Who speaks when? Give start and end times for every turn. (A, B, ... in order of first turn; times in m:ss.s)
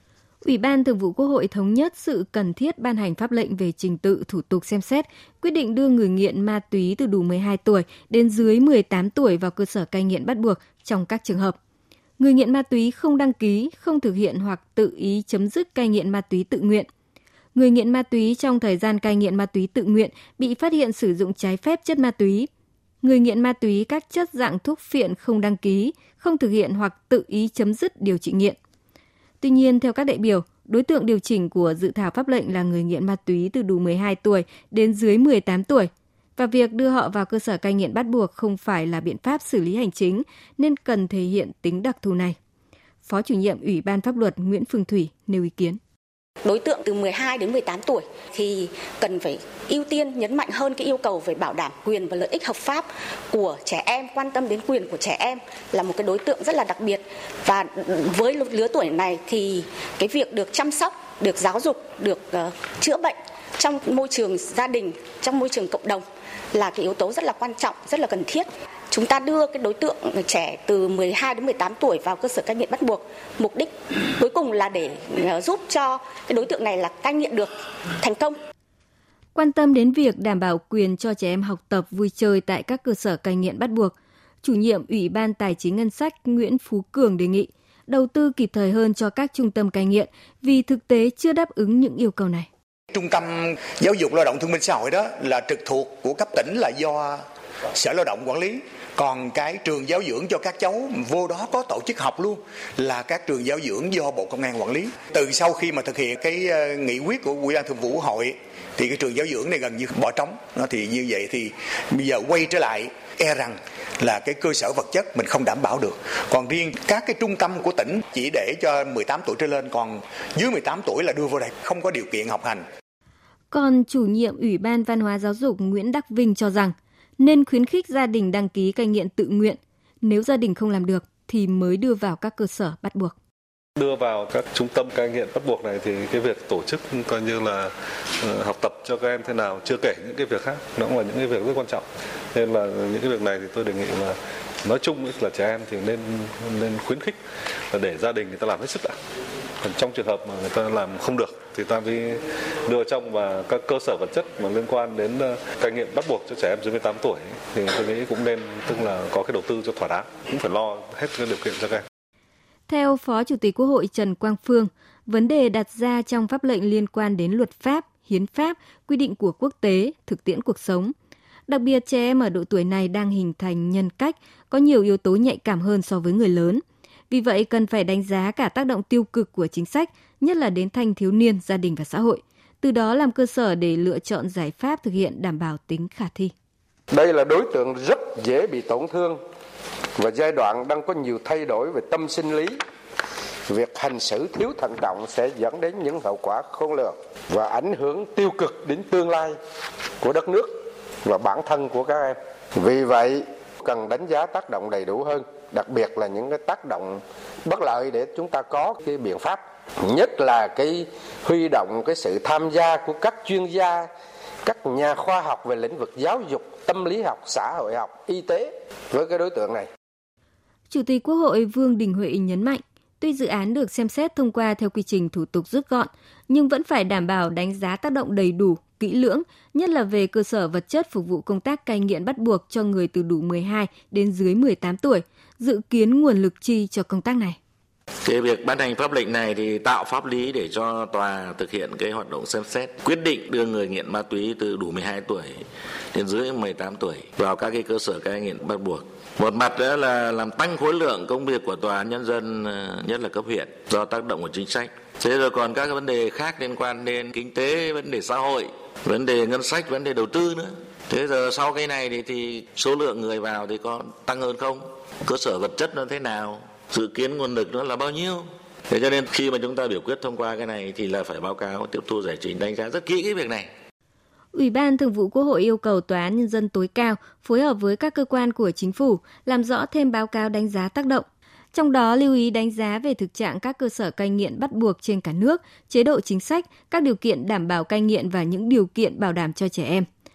0:00.4-0:11.6 A
0:12.2-0:16.9 A
0:17.5-0:22.5 A
0:23.0-0:28.6 A
0:29.4-0:42.4 A
0:43.0-0:45.8 A
0:46.4-1:18.4 B
1:19.3-1:32.5 A
1:32.9-1:37.2 C
1:37.7-2:02.6 C
2:03.5-2:13.1 A
2:13.8-2:17.7 D
2:18.2-2:27.2 D
2:27.7-2:29.0 D
2:29.6-2:41.8 D
2:42.7-2:50.9 A
2:51.5-3:06.3 A
3:06.9-3:09.2 E
3:10.0-3:12.6 E
3:13.5-3:19.4 E
3:20.0-3:20.5 E
3:21.0-3:33.8 E
3:34.4-3:39.6 E
3:40.7-3:57.4 A
3:58.0-4:05.4 F
4:05.9-4:33.5 F
4:34.3-4:49.9 A